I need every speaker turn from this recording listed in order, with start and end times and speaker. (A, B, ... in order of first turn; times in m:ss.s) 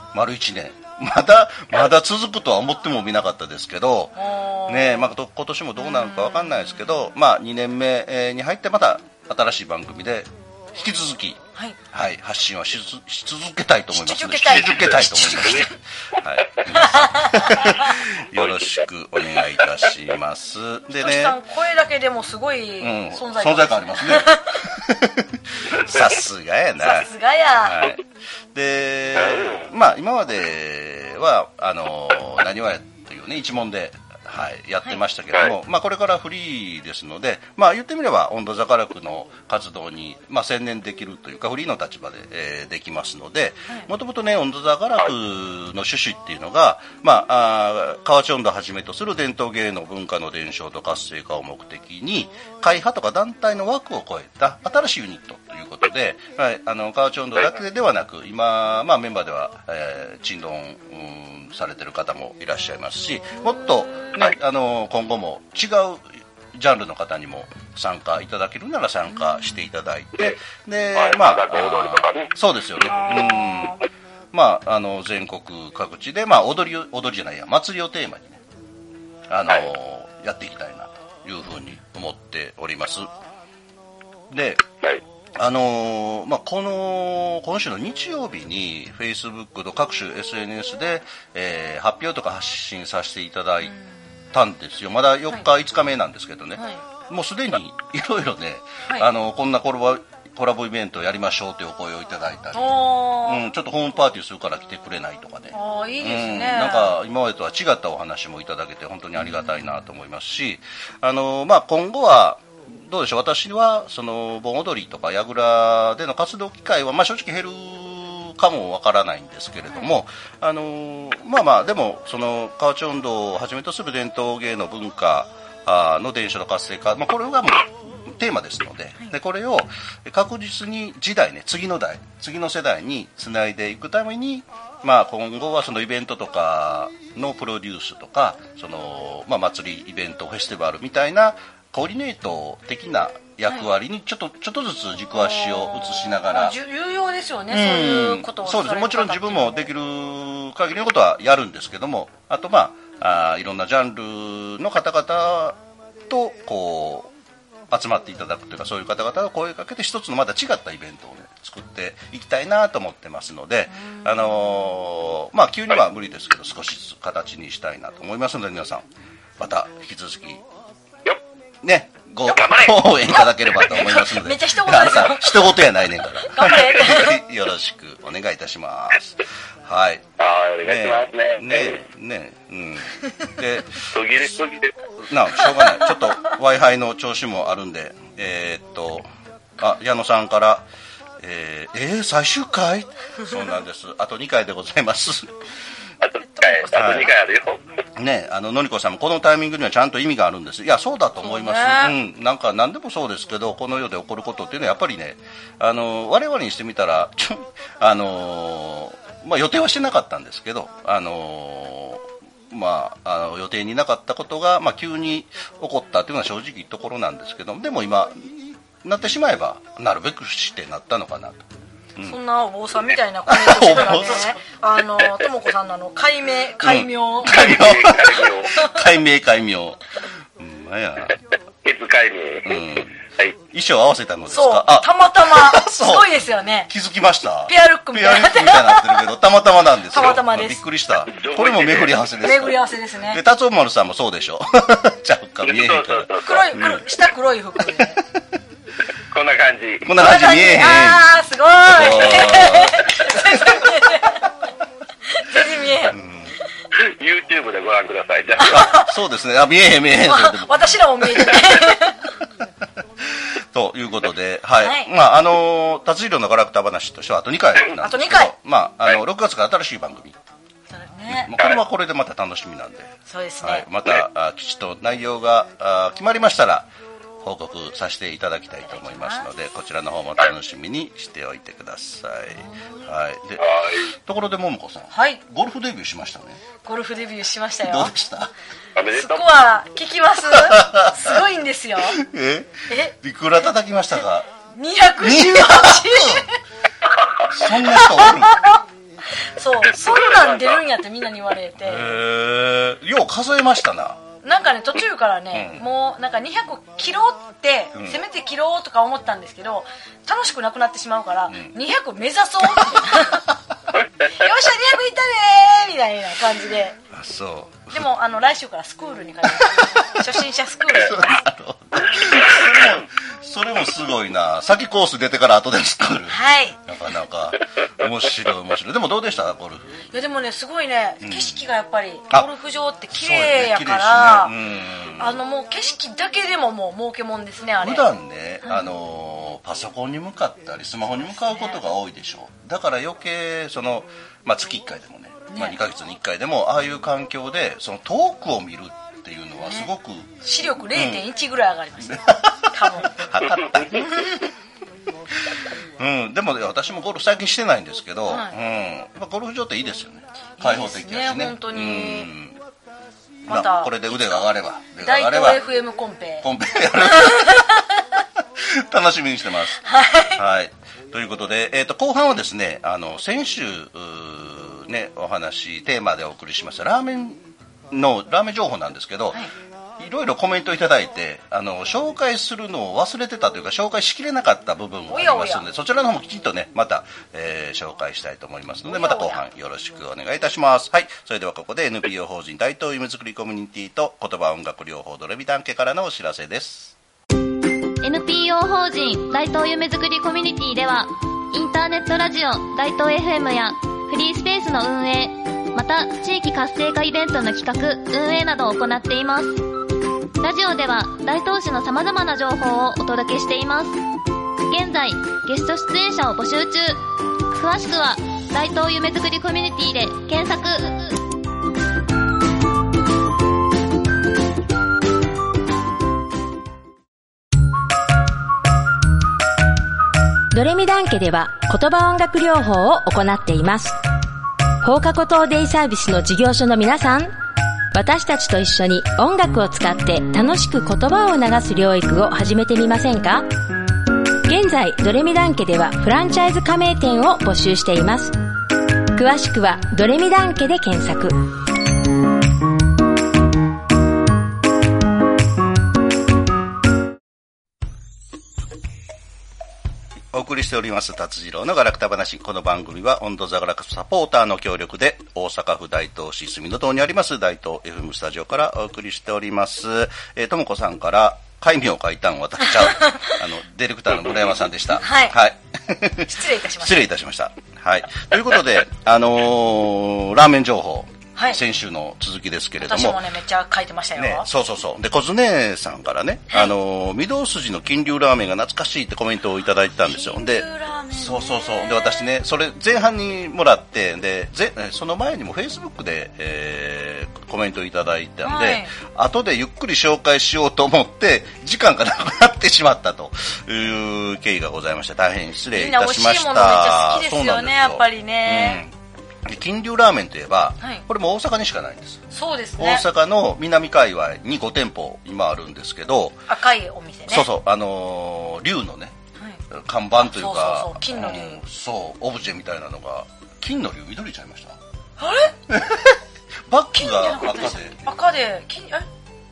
0:00.1-0:21.4 A
0:04.2-0:05.1 B
0:05.9-0:06.6 B
0:13.9-0:15.7 B
0:16.7-0:18.0 B
0:21.0-0:24.6 B
0:22.8-0:28.0 A
0:26.8-0:27.9 B
0:28.5-1:13.8 A
0:29.3-0:29.5 C
1:11.0-1:12.3 C
1:13.0-1:13.8 B
1:14.3-1:18.4 A
1:19.3-1:23.1 A
1:24.3-1:24.6 A
1:25.4-1:33.7 A
1:34.3-2:26.6 A
1:42.5-1:43.4 B
1:45.5-1:47.0 B
2:25.2-2:29.7 B
2:27.5-2:37.1 A
2:37.7-2:48.9 A
2:43.7-2:44.7 B
2:49.4-2:50.4 A
2:51.6-3:00.1 A
2:52.3-2:53.0 C
2:53.6-2:55.6 B
2:56.3-2:57.2 B
3:00.2-3:01.8 C
3:00.6-3:04.0 A
3:03.9-3:04.8 C
3:05.0-3:10.7 A
3:11.2-3:15.4 A
3:16.0-3:17.6 C
3:16.4-3:16.8 B
3:16.7-3:17.1 A
3:18.0-3:42.2 A
3:21.2-3:22.0 B
3:42.0-3:47.5 B
3:43.3-3:44.4 A
3:46.6-3:49.8 A
3:47.3-3:48.6 C
3:50.4-3:51.2 A
3:51.6-3:52.6 C
3:52.4-3:56.1 A
3:54.3-3:56.7 B
3:56.7-4:06.8 A
3:57.5-3:59.1 B
3:59.9-4:00.6 B
4:01.1-4:02.0 C
4:02.2-4:03.2 B
4:05.4-4:06.5 C
4:06.2-4:08.0 B
4:09.1-4:09.9 C
4:09.8-4:11.1 A
4:10.0-4:14.3 B
4:11.7-4:13.6 A
4:15.1-4:16.0 B
4:15.9-4:16.4 A
4:16.7-4:18.6 C
4:18.4-4:18.9 B
4:18.4-4:21.4 A
4:20.0-4:22.1 B
4:23.2-4:30.2 A
4:24.6-4:24.9 B
4:27.8-4:28.3 B
4:30.7-4:31.3 B
4:31.1-4:36.7 A
4:33.1-4:33.7 B
4:37.2-4:46.4 A
4:38.7-4:39.3 B
4:43.4-4:43.8 C
4:44.9-4:45.2 B
4:46.6-4:47.9 B
4:47.6-4:48.3 A
4:48.8-4:49.4 C
4:48.9-4:52.0 B
4:50.3-4:51.2 A
4:51.9-4:54.3 A
4:52.7-4:53.0 B
4:54.6-4:56.4 B
4:55.0-4:56.2 A
4:57.2-4:58.4 A
4:57.5-4:58.6 B
4:59.3-5:01.9 B
4:59.8-5:00.6 C
5:01.6-5:04.0 A
5:04.2-5:13.3 B
5:05.3-5:05.6 A
5:07.8-5:08.0 A
5:14.1-5:16.8 B
5:16.9-5:17.8 A
5:17.7-5:21.2 B
5:19.3-5:20.1 A
5:20.8-5:29.8 A
5:26.1-5:26.6 B
5:29.9-5:34.3 B
5:31.0-5:31.4 A
5:32.9-5:35.2 A
5:35.0-5:37.9 B
5:37.6-5:50.2 A
5:38.5-5:38.7 B
5:41.0-5:41.6 B
5:49.4-5:49.7 B
5:50.2-5:53.0 B
5:50.7-5:51.0 A
5:51.9-5:53.9 A
5:53.7-5:54.2 B
5:55.8-6:02.4 A
5:58.1-5:58.4 B
6:00.4-6:02.1 B
6:03.3-6:05.4 A
6:03.3-6:04.3 B
6:04.8-6:06.3 B
6:06.2-6:07.6 A
6:06.8-6:07.6 B
6:08.4-6:09.6 A
6:09.6-6:10.2 B
6:10.2-6:19.2 A
6:19.8-6:36.8 A
6:24.9-6:25.4 B
6:28.7-6:29.2 B
6:37.8-6:49.4 D
6:50.2-6:53.8 D
6:54.5-7:01.0 D
7:10.3-7:13.8 E
7:14.6-7:17.1 E
7:17.7-7:23.3 E
7:24.2-7:28.2 E
7:28.9-7:31.2 E
7:40.1-8:03.0 A
7:52.6-7:53.1 B
7:54.8-7:55.2 B
7:56.1-7:56.9 B
8:02.6-8:04.3 B
8:04.0-8:28.7 A
8:09.7-8:12.1 B
8:18.2-8:18.7 B
8:25.5-8:28.6 B
8:29.2-8:32.0 A
8:32.1-8:32.8 B
8:32.6-8:36.2 A
8:36.3-8:37.3 B
8:37.1-8:39.0 A
8:39.5-8:44.6 A
8:40.0-8:41.4 B
8:45.0-8:45.4 B
8:45.5-8:47.9 A
8:46.8-8:48.9 B